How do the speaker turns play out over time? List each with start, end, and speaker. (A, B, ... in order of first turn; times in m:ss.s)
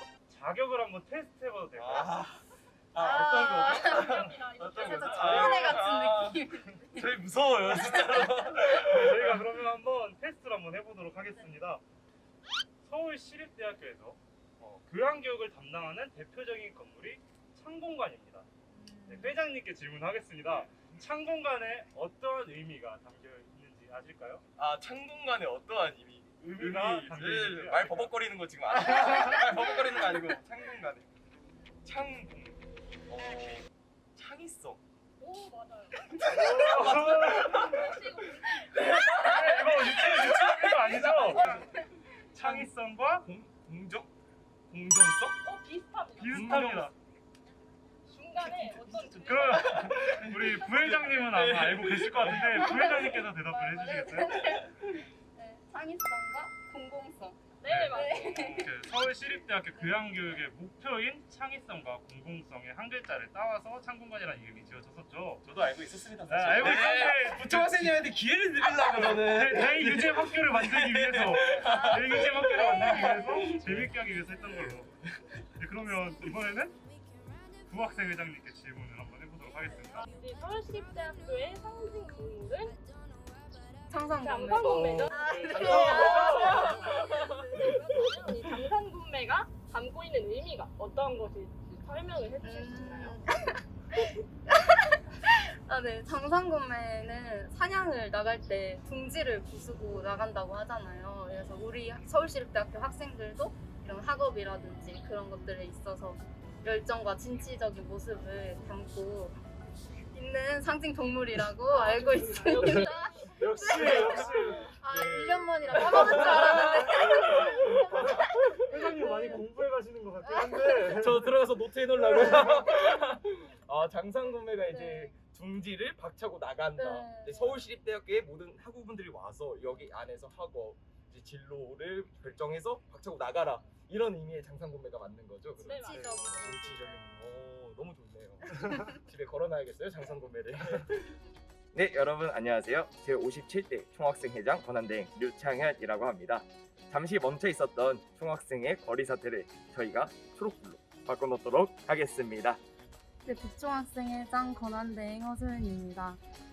0:00.3-0:02.2 A
0:01.7-0:09.4 B
0:03.0-0:08.8 C
0:03.0-0:05.8 A
0:03.7-0:05.6 D
0:08.3-0:11.8 A
0:12.8-0:18.5 A
0:18.7-0:19.4 C
0:19.1-0:24.4 A
0:24.6-0:31.1 B
0:26.4-0:28.1 A
0:28.9-0:29.4 A
0:31.8-0:34.8 B
0:35.2-0:36.1 D
0:36.2-0:38.0 B
0:36.3-0:37.9 A
0:36.8-0:38.8 D
0:38.7-0:41.7 B
0:39.2-0:41.6 A
0:41.4-0:41.8 C
0:42.3-0:42.7 B
0:42.4-0:43.3 A
0:43.2-0:44.1 B
0:44.7-0:45.4 B
0:45.4-0:46.6 D
0:46.2-0:46.9 A
0:46.3-0:46.9 B
0:48.1-0:49.8 D
0:48.4-0:52.7 B
0:49.1-0:54.3 A
0:52.5-0:57.4 C
0:57.6-0:58.6 D
0:57.6-1:05.4 A
0:57.9-0:58.7 C
0:59.7-1:00.4 C
1:05.4-1:14.0 B
1:06.2-1:08.1 A
1:08.7-1:14.9 A
1:11.6-1:13.5 C
1:15.6-1:16.8 A
1:17.7-1:20.1 A
1:20.1-1:22.8 D
1:23.9-1:28.0 C
1:24.2-1:33.2 D
1:24.7-1:26.9 A
1:25.9-1:27.6 B
1:32.4-1:49.4 C
1:50.1-1:58.1 C
1:51.7-1:54.7 D
1:53.4-1:54.7 A
1:53.8-1:54.2 B
1:54.9-1:57.7 B
1:55.7-1:56.9 A
1:57.8-2:01.3 A
1:59.0-1:59.3 C
2:00.2-2:00.6 C
2:01.0-2:21.1 B
2:04.7-2:05.1 C
2:06.8-2:07.6 C
2:15.6-2:16.7 D
2:15.8-2:17.0 C
2:21.7-2:32.6 B
2:33.2-2:36.2 C